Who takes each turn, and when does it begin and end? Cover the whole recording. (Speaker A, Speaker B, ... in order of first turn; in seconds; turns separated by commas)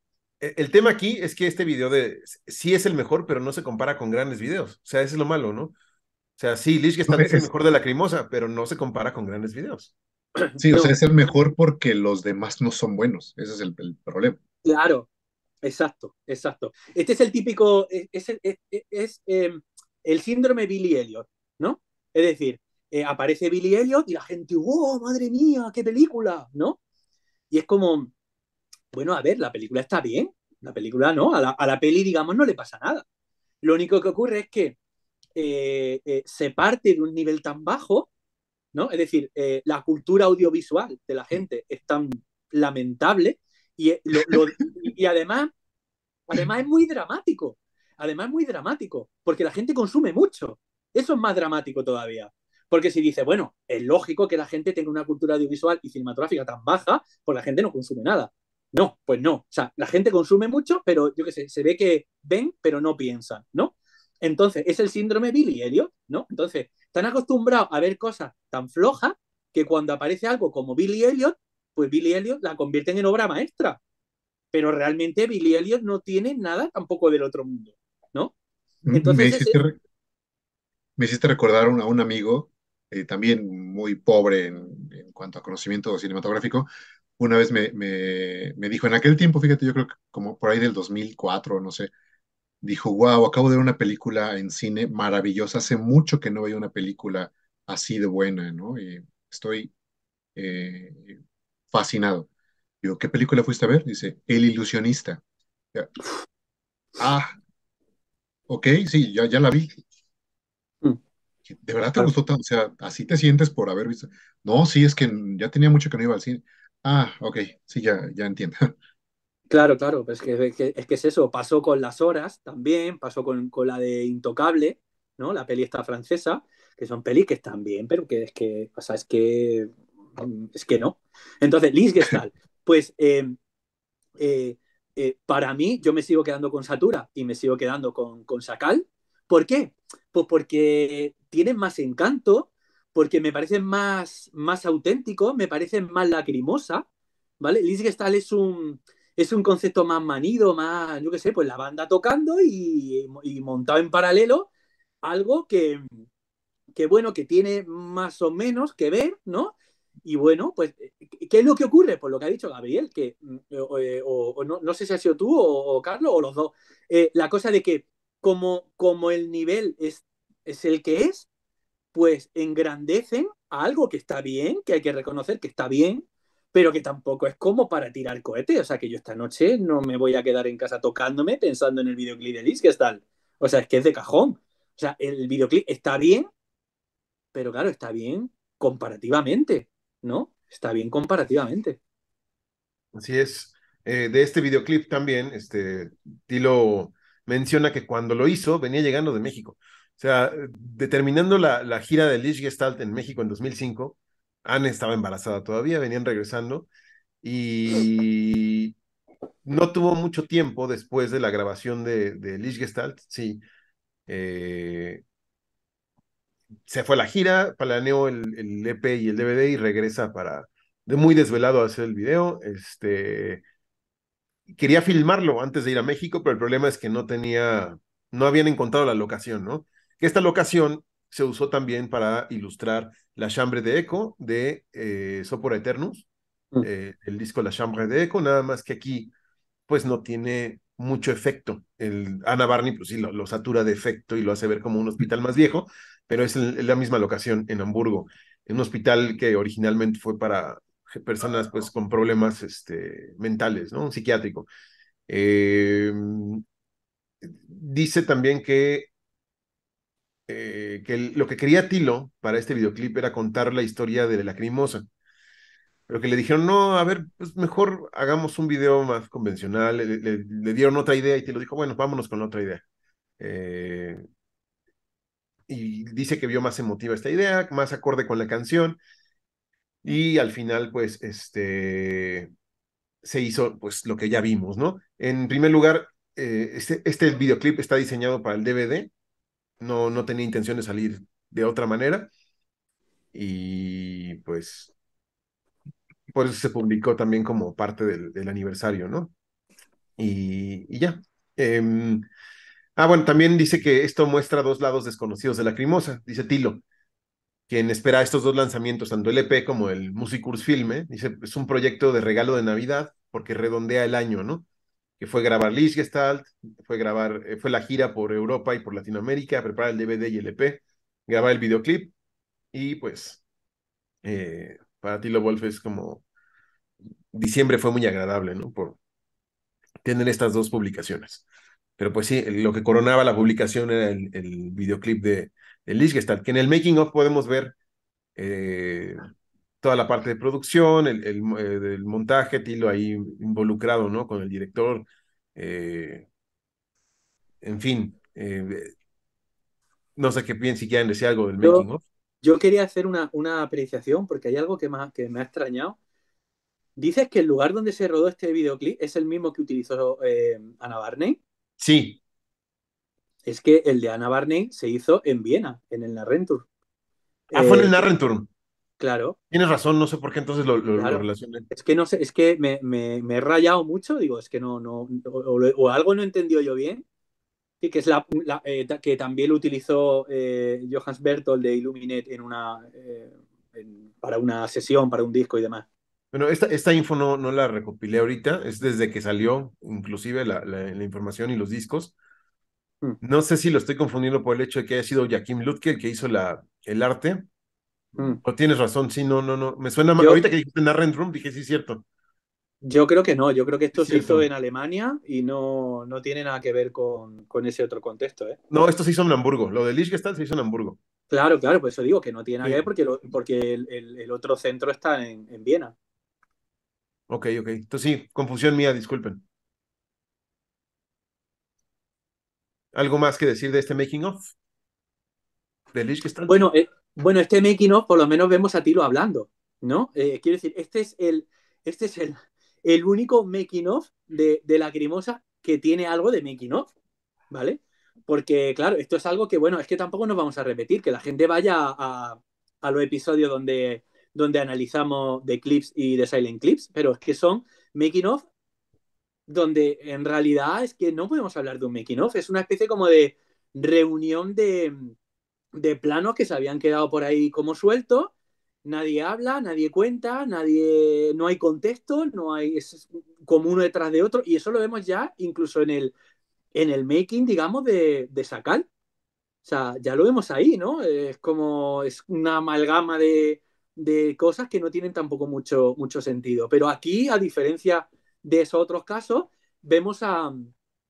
Speaker A: 0.4-5.7, Speaker A: 6.4-9.9, Speaker B: 7.1-7.5, Speaker C: 10.6-10.9, Speaker B: 10.6-14.4, Speaker C: 14.6-15.1, Speaker C: 15.6-26.8, Speaker C: 27.5-28.1, Speaker C: 28.9-33.0, Speaker C: 33.6-34.8, Speaker C: 35.3-38.1, Speaker C: 38.7-45.5, Speaker C: 46.3-73.8, Speaker C: 74.5-78.3, Speaker B: 78.8-79.8, Speaker C: 78.9-79.6, Speaker B: 81.0-91.9, Speaker B: 92.6-99.7, Speaker B: 100.3-101.2, Speaker B: 101.7-102.3, Speaker B: 102.8-105.2, Speaker B: 107.0-107.3, Speaker B: 108.5-109.8, Speaker B: 111.5-118.7, Speaker C: 119.5-133.3, Speaker C: 134.2-146.8, Speaker C: 147.4-154.5, Speaker C: 155.0-155.9, Speaker C: 156.7-171.3, Speaker C: 171.9-186.3, Speaker C: 187.3-191.8, Speaker A: 192.9-206.7, Speaker A: 207.2-208.7, Speaker A: 209.4-213.4, Speaker A: 214.1-215.0, Speaker A: 216.7-223.4, Speaker A: 224.5-236.1, Speaker A: 236.6-239.1, Speaker A: 239.7-254.5, Speaker A: 255.1-256.4, Speaker A: 257.2-258.9, Speaker A: 260.3-264.8, Speaker A: 265.9-272.6, Speaker A: 273.2-274.0, Speaker A: 275.5-278.8, Speaker A: 279.8-282.3, Speaker A: 283.0-288.9, Speaker A: 289.6-292.1, Speaker A: 293.1-294.7, Speaker A: 296.1-299.1, Speaker A: 300.0-302.0, Speaker A: 302.8-306.6, Speaker A: 307.5-314.4, Speaker A: 315.0-321.9, Speaker A: 322.5-323.2, Speaker A: 324.0-326.0, Speaker A: 327.1-328.8, Speaker A: 329.8-331.2, Speaker A: 331.8-337.5, Speaker A: 338.2-339.1, Speaker A: 339.6-346.1, Speaker A: 347.4-348.7, Speaker A: 350.0-351.8, Speaker C: 352.2-355.8, Speaker C: 356.8-361.2, Speaker A: 361.6-362.0, Speaker C: 363.2-366.5, Speaker C: 367.3-367.8, Speaker A: 367.3-368.3, Speaker C: 368.8-369.1, Speaker A: 369.3-371.5, Speaker C: 370.8-376.8, Speaker C: 377.6-385.6, Speaker A: 386.1-391.9, Speaker A: 393.0-397.2, Speaker A: 398.2-401.8, Speaker C: 402.6-408.4, Speaker A: 403.7-404.3, Speaker A: 408.5-410.8, Speaker C: 411.1-415.7, Speaker A: 417.1-419.2, Speaker A: 422.7-424.3, Speaker A: 425.7-426.5, Speaker C: 426.3-436.7, Speaker C: 437.3-448.2, Speaker C: 449.3-454.9, Speaker C: 455.5-458.1, Speaker C: 458.6-465.9, Speaker C: 466.5-468.7, Speaker C: 469.4-480.5